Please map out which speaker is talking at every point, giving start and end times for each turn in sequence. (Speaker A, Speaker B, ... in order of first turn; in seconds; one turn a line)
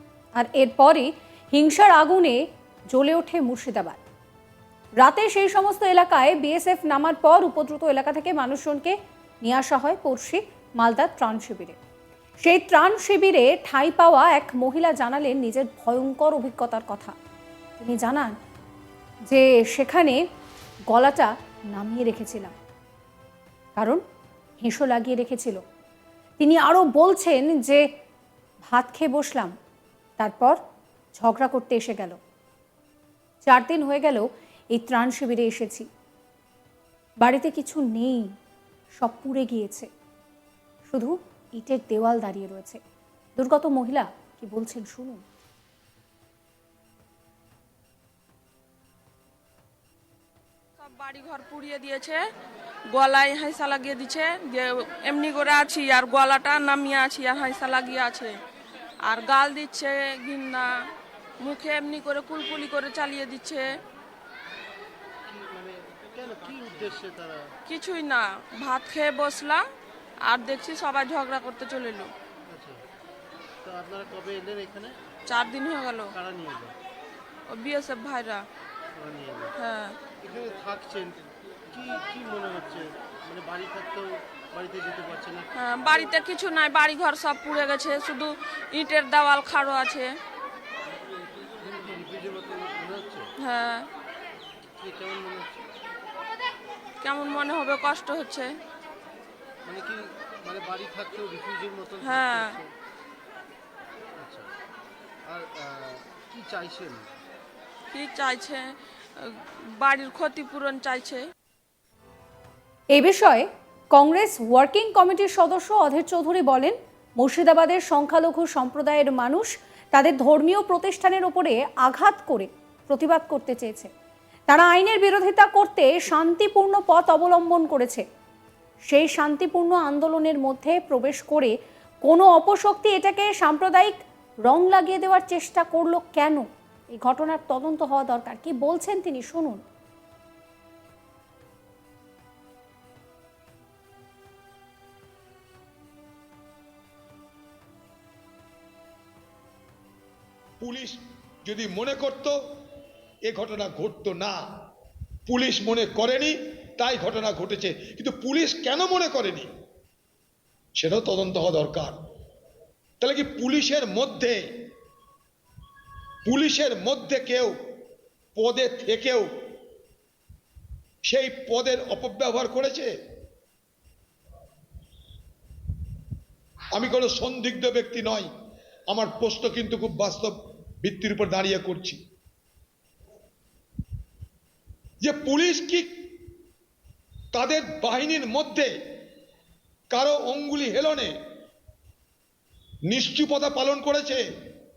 Speaker A: 0.3-4.0
Speaker A: 5.0-11.8
Speaker A: 12.4-17.1
Speaker A: 17.8-18.3
Speaker A: 19.3-20.2
Speaker A: 20.9-22.5
Speaker A: 23.8-24.0
Speaker A: 24.6-25.6
Speaker A: 26.4-27.8
Speaker A: 28.6-29.5
Speaker A: 30.2-30.6
Speaker A: 31.1-32.2
Speaker A: 33.4-35.9
Speaker A: 37.2-38.3
Speaker A: 38.9-39.9
Speaker A: 40.9-42.8
Speaker A: 43.4-45.2
Speaker B: 50.8-52.2
Speaker B: 52.9-58.3
Speaker B: 59.0-60.7
Speaker B: 61.4-63.8
Speaker C: 65.3-67.5
Speaker B: 67.7-69.6
Speaker B: 70.2-72.1
Speaker C: 72.5-72.8
Speaker C: 73.6-75.0
Speaker B: 75.3-76.1
Speaker C: 76.1-76.8
Speaker B: 77.5-78.4
Speaker C: 78.9-79.5
Speaker B: 79.6-80.0
Speaker C: 80.2-85.5
Speaker B: 85.5-90.1
Speaker C: 91.3-93.3
Speaker B: 93.4-93.9
Speaker C: 94.8-95.6
Speaker B: 97.0-98.5
Speaker C: 99.7-102.7
Speaker B: 102.0-102.6
Speaker C: 104.2-104.5
Speaker C: 105.2-107.1
Speaker B: 107.9-108.7
Speaker B: 109.2-111.2
Speaker A: 112.9-123.9
Speaker A: 124.5-128.0
Speaker A: 128.9-131.5
Speaker A: 132.0-139.6
Speaker D: 150.6-152.4
Speaker D: 153.2-154.4
Speaker D: 155.3-159.5
Speaker D: 160.8-162.0
Speaker D: 163.0-164.4
Speaker D: 166.2-167.5
Speaker D: 168.3-169.3
Speaker D: 171.0-172.9
Speaker D: 176.7-178.3
Speaker D: 178.9-182.0
Speaker D: 185.0-185.9
Speaker D: 187.3-188.7
Speaker D: 189.9-191.1
Speaker D: 192.9-194.2